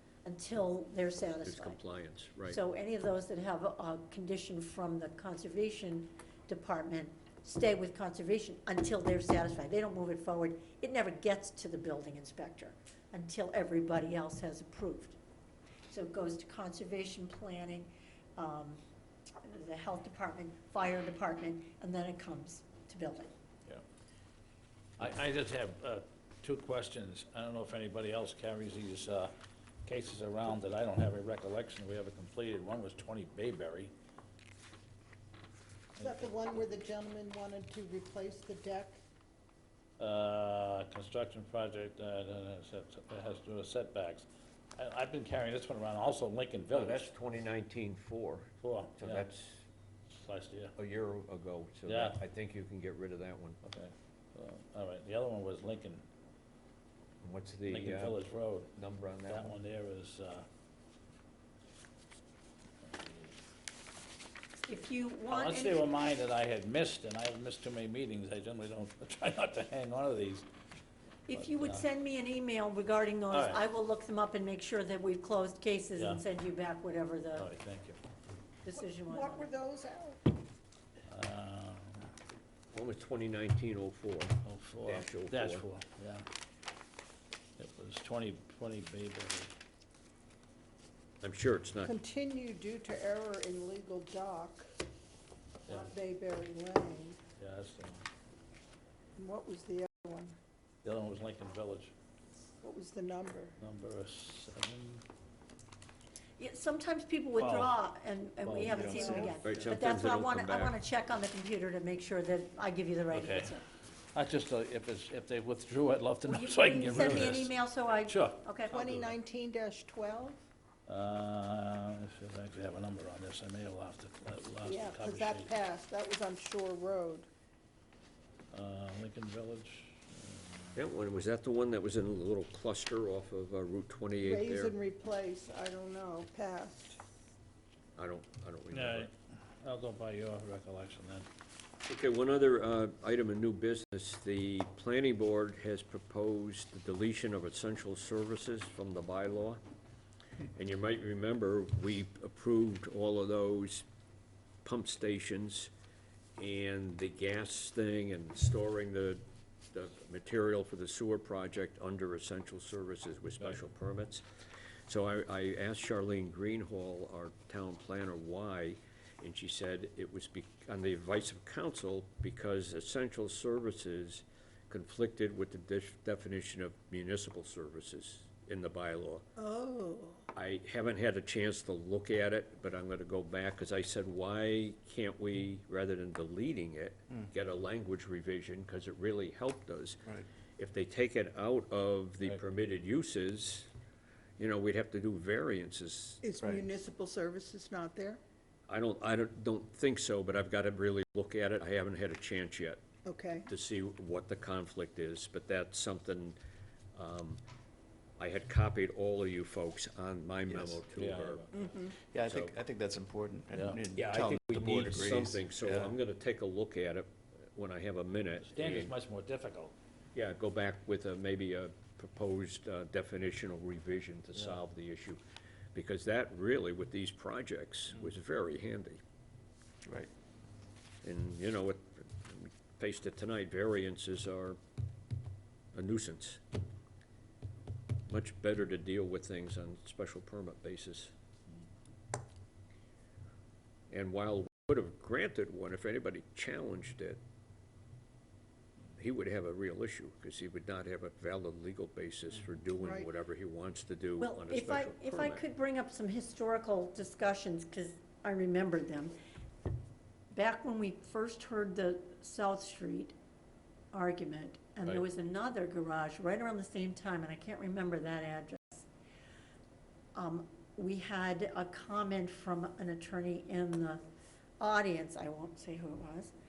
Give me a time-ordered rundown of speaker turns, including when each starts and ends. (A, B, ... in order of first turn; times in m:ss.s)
0:00.2-0:01.8 A
0:01.4-0:02.6 B
0:02.5-0:15.2 A
0:15.9-0:18.8 A
0:19.4-0:23.3 A
0:25.0-0:29.3 C
0:29.8-0:33.9 C
0:36.0-0:39.0 D
0:40.0-0:44.2 C
0:44.8-0:47.1 C
0:46.7-0:49.6 B
0:48.6-0:49.3 C
0:50.1-0:50.7 C
0:50.8-0:53.6 B
0:51.9-0:52.2 C
0:53.6-0:56.0 C
0:57.2-0:58.2 B
0:57.7-0:58.7 C
0:58.7-0:59.5 B
0:59.3-1:00.5 C
1:02.9-1:03.2 C
1:04.7-1:05.9 A
1:05.3-1:10.5 C
1:11.3-1:17.5 A
1:11.3-1:11.8 C
1:13.3-1:13.6 C
1:16.0-1:16.2 C
1:17.4-1:18.0 C
1:18.6-1:19.5 A
1:18.8-1:20.2 D
1:21.1-1:22.1 C
1:22.7-1:25.6 B
1:24.4-1:26.2 C
1:27.6-1:29.5 C
1:31.2-1:31.9 B
1:31.8-1:34.7 D
1:35.6-1:37.2 D
1:37.4-1:38.0 C
1:39.2-1:40.4 D
1:40.8-1:41.9 C
1:42.6-1:43.6 D
1:43.6-1:45.0 C
1:46.4-1:53.6 A
1:47.4-1:47.8 C
1:48.4-1:49.1 C
1:48.6-1:49.4 D
1:49.4-1:50.8 B
1:53.1-1:53.5 C
1:54.1-1:57.5 C
1:56.3-1:58.8 A
1:58.1-1:59.2 C
1:58.7-2:00.4 D
2:00.9-2:05.5 C
2:04.6-2:07.3 D
2:08.5-2:10.8 C
2:10.8-2:14.8 B
2:14.2-2:17.0 D
2:18.0-2:19.1 B
2:18.7-2:21.3 C
2:21.9-2:29.6 B
2:30.5-2:33.8 B
2:34.6-2:35.7 B
2:36.4-2:44.2 B
2:44.9-2:59.2 B
2:59.4-3:00.3 D
3:00.3-3:10.0 B
3:10.6-3:13.7 B
3:14.4-3:16.2 B
3:16.2-3:18.2 D
3:16.4-3:16.7 E
3:18.7-3:22.8 B
3:23.0-3:23.5 D
3:23.5-3:26.4 B
3:27.0-3:27.4 B
3:28.2-3:31.4 B
3:30.5-3:30.8 E
3:30.9-3:31.5 C
3:31.6-3:31.9 D
3:32.0-3:36.0 E
3:32.2-3:32.6 B
3:33.5-3:33.8 C
3:34.0-3:38.9 B
3:38.5-3:39.7 C
3:40.2-3:45.2 B
3:45.7-3:49.0 B
3:51.0-3:54.6 B
3:55.7-3:56.4 B
3:58.1-4:01.1 B
4:03.9-4:07.2 B
4:09.0-4:15.4 B
4:12.7-4:13.1 D
4:14.2-4:19.2 A
4:20.3-4:23.2 A
4:23.9-4:28.9 A
4:30.2-4:34.0 A
4:34.6-4:36.3 A